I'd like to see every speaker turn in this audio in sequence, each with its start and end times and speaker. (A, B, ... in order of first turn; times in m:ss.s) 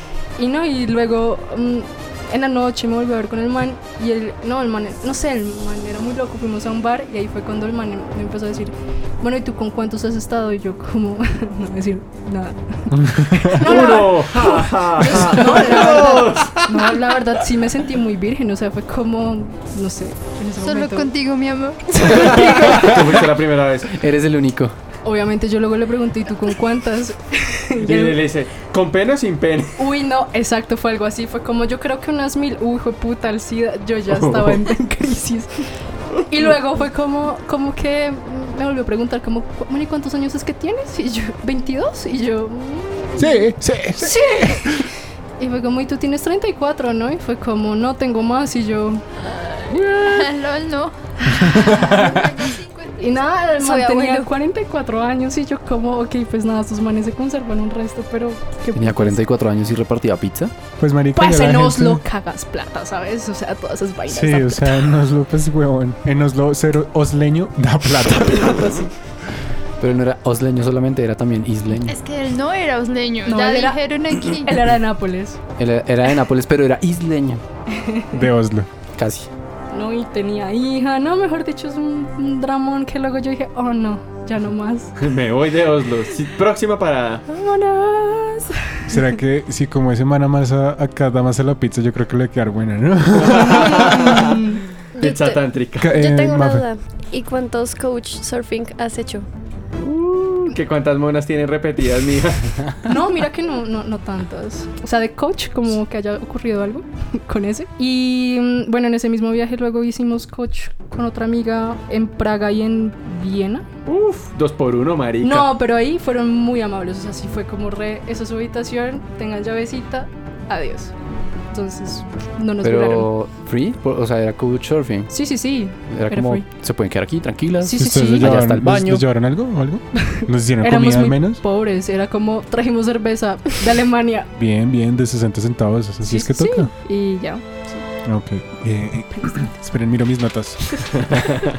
0:00.4-0:21.1 A
0:12.9-0:13.8 B
0:13.6-0:17.1 C
0:20.6-0:22.2 D
0:21.9-0:23.2 A
0:22.7-0:24.0 C
0:23.9-0:24.7 E
0:25.0-0:28.2 A
0:27.8-0:29.9 C
0:29.8-0:35.5 A
0:34.1-0:34.6 C
0:36.3-0:44.9 A
0:43.2-0:44.8 B
0:45.4-0:49.0 A
0:49.7-0:50.0 A
0:49.9-0:53.4 D
0:51.4-0:52.1 A
0:51.4-0:52.2 B
0:53.0-0:59.2 A
0:53.6-0:54.3 F
0:58.7-1:00.5 E
1:00.8-1:02.0 B
1:01.1-1:04.9 A
1:04.1-1:08.8 B
1:08.4-1:08.9 A
1:09.8-1:12.0 E
1:11.8-1:14.6 D
1:13.2-1:15.4 A
1:15.6-1:17.4 E
1:17.7-1:18.3 A
1:18.1-1:18.7 B
1:19.0-1:19.3 E
1:19.7-1:24.9 A
1:25.0-1:27.2 C
1:27.3-1:29.1 A
1:28.9-1:34.3 B
1:33.2-1:34.4 C
1:33.4-1:34.6 A
1:35.0-1:35.9 C
1:35.0-1:39.3 F
1:35.8-1:36.7 B
1:39.8-1:42.6 C
1:42.8-1:53.7 A
1:53.9-1:55.5 C
1:55.2-2:00.9 A
2:01.5-2:03.1 A
2:02.6-2:05.1 E
2:05.1-2:06.5 A
2:05.9-2:09.0 E
2:07.6-2:08.4 A
2:07.8-2:11.4 B
2:10.0-2:14.3 A
2:14.4-2:16.7 B
2:16.0-2:17.9 A
2:18.0-2:21.1 B
2:19.2-2:19.4 A